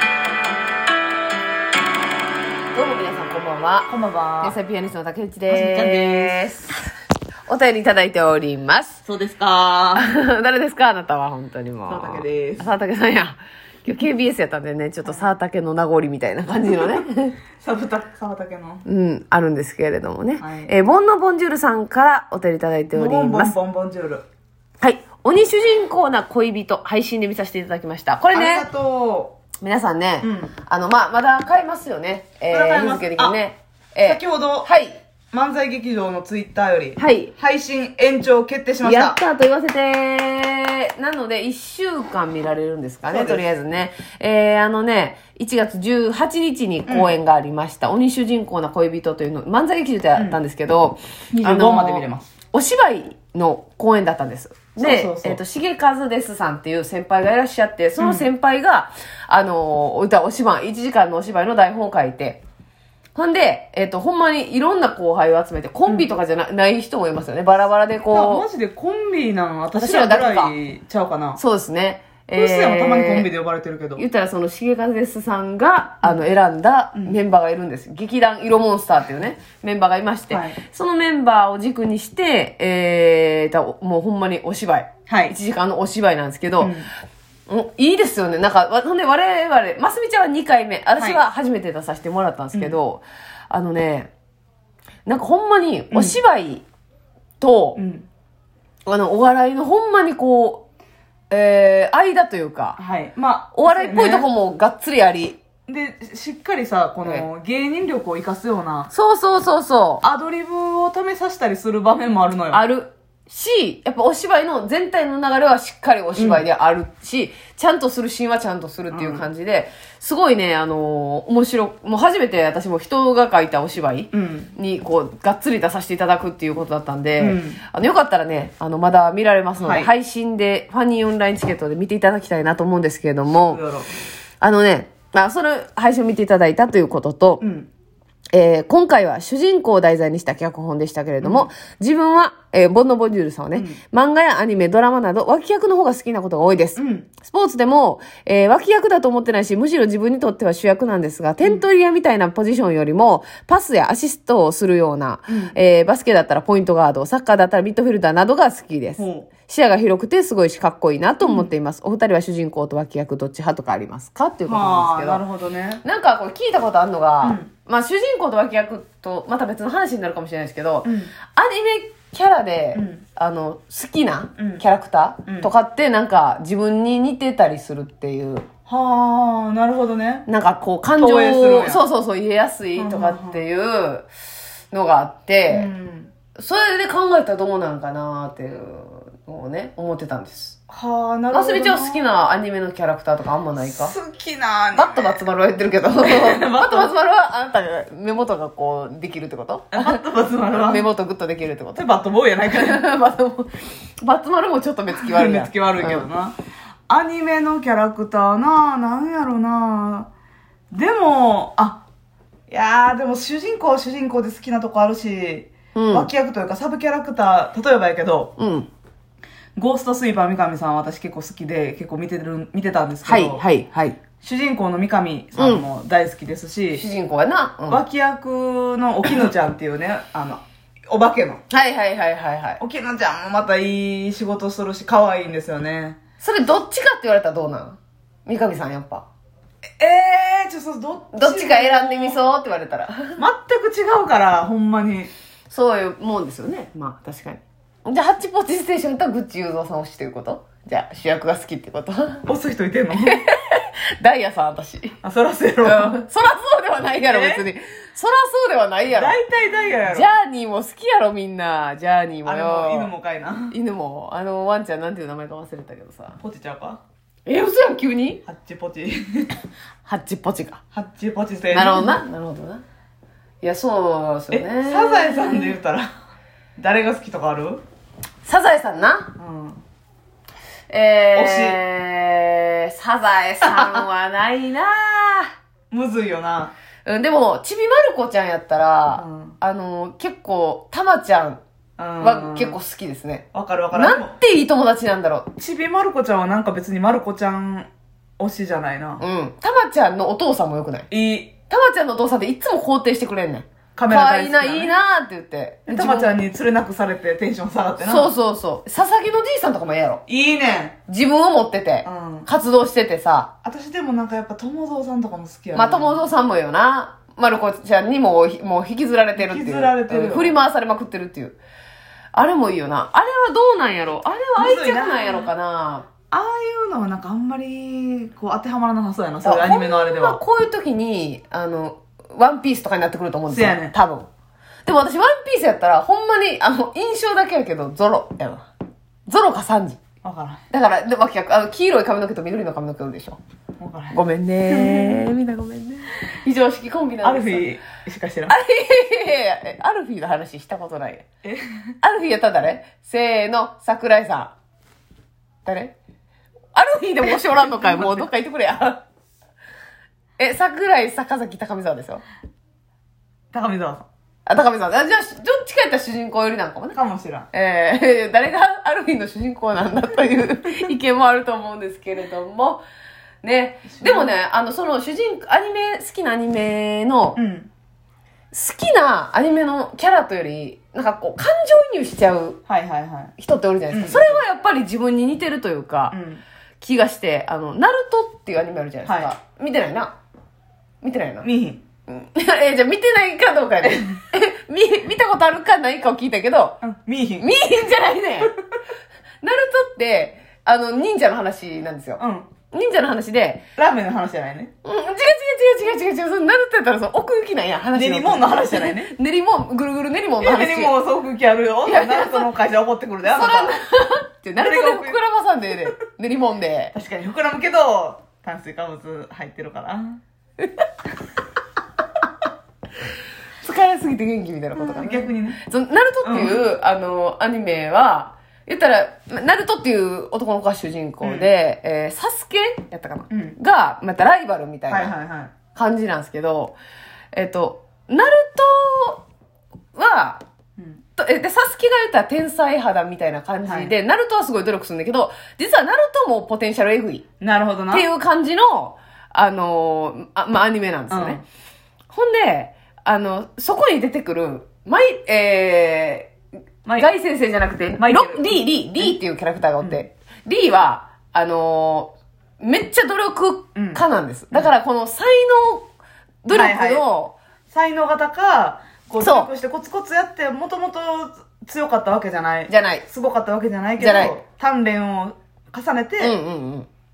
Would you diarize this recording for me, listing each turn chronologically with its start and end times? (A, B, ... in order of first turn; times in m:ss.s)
0:02.7-0:06.8 A
0:03.9-0:04.6 B
0:05.5-0:06.5 B
0:07.5-0:09.0 A
0:09.0-0:10.1 B
0:10.0-0:17.4 A
0:11.9-0:12.7 B
0:15.0-0:15.3 B
0:16.7-0:17.0 B
0:17.6-0:18.8 B
0:18.9-0:23.5 A
0:20.4-0:20.7 B
0:22.9-0:24.2 B
0:24.8-0:28.7 A
0:28.3-0:29.4 B
0:29.6-0:35.0 A
0:30.2-0:30.5 B
0:32.5-0:33.4 B
0:34.0-0:34.7 B
0:35.3-0:39.2 B
0:37.0-0:37.3 A
0:38.8-1:02.4 A
0:43.1-0:43.4 B
0:46.9-0:47.2 B
0:50.2-0:50.4 B
0:51.3-0:52.3 B
0:54.8-0:55.4 B
0:58.0-0:58.3 B
1:03.1-1:08.4 A
1:05.9-1:06.1 B
1:08.1-1:11.4 B
1:09.8-1:10.5 A
1:11.4-1:13.3 A
1:12.3-1:14.0 B
1:14.0-1:26.8 A
1:16.9-1:17.2 B
1:20.3-1:20.6 B
1:25.1-1:25.4 B
1:26.6-1:26.9 B
1:27.5-1:34.1 A
1:31.0-1:31.2 B
1:35.1-1:36.6 A
1:35.9-1:36.2 B
1:37.4-1:37.8 A
1:37.8-1:38.1 B
1:38.9-1:40.6 A
1:41.3-1:42.8 A
1:42.8-1:44.3 B
1:43.5-1:45.4 A
1:45.7-1:48.9 B
1:48.9-1:50.0 A
1:50.0-1:52.6 B
1:52.5-2:13.6 A
1:56.2-1:56.4 B
1:58.9-1:59.3 B
2:04.1-2:04.5 B
2:07.2-2:07.6 B
2:09.6-2:09.9 B
2:13.3-2:13.9 B
2:14.4-2:17.4 A
2:17.4-2:17.7 B
2:18.3-2:45.2 A
2:21.2-2:21.5 B
2:23.5-2:23.8 B
2:26.8-2:27.1 B
2:31.4-2:31.7 B
2:35.3-2:35.5 B
2:39.0-2:39.3 B
2:41.2-2:41.5 B
2:44.5-2:45.8 B
2:45.8-2:58.5 A
2:47.2-2:47.5 B
2:50.8-2:51.1 B
2:52.7-2:53.0 B
2:54.4-2:54.6 B
2:55.2-2:55.5 B
2:58.7-3:00.3 B
3:00.3-3:04.1 A
3:01.0-3:01.8 B
3:02.8-3:03.4 B
3:04.7-3:05.7 A
3:05.5-3:06.1 B
3:06.4-3:10.6 A
3:10.7-3:12.1 B
3:11.3-3:13.9 A
3:13.6-3:15.2 B
3:14.8-3:21.9 A
3:16.0-3:16.9 B
3:19.7-3:20.8 B
3:21.8-3:22.8 B
3:22.4-3:26.1 A
3:24.9-3:26.4 B
3:26.9-3:30.1 B
3:30.7-3:31.8 B
3:32.5-3:38.3 B
3:35.8-3:36.1 A
3:38.4-3:38.7 A
3:39.6-3:43.4 B
3:43.0-3:44.0 A
3:44.2-3:46.8 B
3:45.4-3:45.6 A
3:46.8-3:47.8 A
3:47.7-3:51.4 B
3:51.5-3:52.6 A
3:52.6-3:56.0 B
3:56.2-3:59.0 A
3:59.8-4:02.2 B
4:01.1-4:03.2 A
4:03.2-4:05.1 B
4:05.5-4:12.2 A
4:12.2-4:13.2 B
4:13.0-4:15.0 A
4:15.0-4:16.0 B
4:15.6-4:19.2 A
4:17.0-4:17.4 B
4:18.9-4:20.1 B
4:19.8-4:22.9 A
4:22.2-4:23.6 B
4:23.5-4:26.2 A
4:26.2-4:26.8 B
4:27.3-4:28.2 A
4:28.2-4:29.4 B
4:29.8-4:30.6 A
4:30.7-4:32.0 B
4:31.5-4:32.6 A
4:33.4-4:35.6 A
4:34.3-4:35.9 B
4:36.6-4:37.6 B
4:38.2-4:39.1 A
4:39.2-4:39.6 B
4:40.7-4:45.3 A
4:41.1-4:41.6 B
4:43.4-4:43.8 B
4:45.7-4:46.5 B
4:46.8-4:51.4 A
4:49.0-4:49.4 B
4:51.8-4:52.6 B
4:52.0-4:55.3 A
4:53.3-4:54.1 B
4:55.4-4:59.0 B
4:59.0-5:00.9 A
5:00.9-5:01.3 B
5:01.5-5:06.1 A
5:03.8-5:04.7 B
5:05.7-5:08.1 B
5:07.8-5:10.0 A
5:10.1-5:10.8 B
5:10.9-5:13.3 A
5:11.8-5:12.3 B
5:13.4-5:16.0 B
5:15.5-5:21.4 A
5:19.2-5:20.3 B
5:22.1-5:25.9 A
5:24.4-5:25.3 B
5:26.1-5:30.2 B
5:29.2-5:34.1 A
5:33.3-5:33.7 B
5:34.6-5:38.5 A
5:39.1-5:39.8 A
5:40.0-5:40.4 B
5:40.5-5:43.2 A
5:43.6-5:45.0 B
5:43.9-5:47.5 A
5:47.0-5:48.4 B
5:48.3-5:51.0 A
5:51.2-5:51.6 B
5:51.8-5:54.3 A
5:55.4-5:55.7 A
5:56.5-5:58.8 A
5:57.4-5:58.0 B
6:00.2-6:02.0 A
6:03.3-6:03.9 B
6:04.2-6:06.8 A
6:06.7-6:07.3 B
6:07.3-6:12.6 A
6:13.2-6:17.2 A
6:13.7-6:14.1 B
6:17.2-6:17.5 B
6:18.3-6:22.4 A
6:22.5-6:23.1 B
6:23.2-6:26.0 A
6:23.7-6:24.2 B
6:25.9-6:26.2 B
6:26.6-6:29.9 A
6:28.8-6:29.1 B
6:30.8-6:31.3 A
6:31.2-6:31.6 B
6:31.9-6:36.6 A
6:36.6-6:37.4 B
6:37.2-6:38.4 A
6:39.2-6:43.4 A
6:42.0-6:42.3 B
6:43.6-6:44.5 B
6:44.6-6:50.8 A
6:47.7-6:48.9 B
6:50.2-6:53.6 B
6:51.6-6:52.3 A
6:53.0-6:56.7 A
6:54.4-6:55.0 B
6:56.7-7:00.0 B
7:03.4-7:14.9 A
7:04.6-7:05.4 B
7:06.0-7:06.4 B
7:11.0-7:11.3 B
7:13.1-7:13.4 B
7:14.7-7:15.3 B
7:15.5-7:16.6 A
7:17.1-7:19.0 A
7:19.7-7:20.2 A
7:21.0-7:27.0 A
7:23.4-7:23.7 B
7:27.2-7:27.9 B
7:27.7-7:31.2 A
7:30.9-7:31.2 B
7:31.9-7:36.1 A
7:36.6-7:36.9 B
7:36.8-7:45.7 A
7:37.8-7:38.9 B
7:43.5-7:43.8 B
7:46.2-7:47.2 A
7:46.3-7:46.8 B
7:47.5-7:56.1 B
7:49.0-7:49.3 A
7:52.5-7:52.8 A
7:53.8-7:54.2 A
7:56.0-7:56.7 A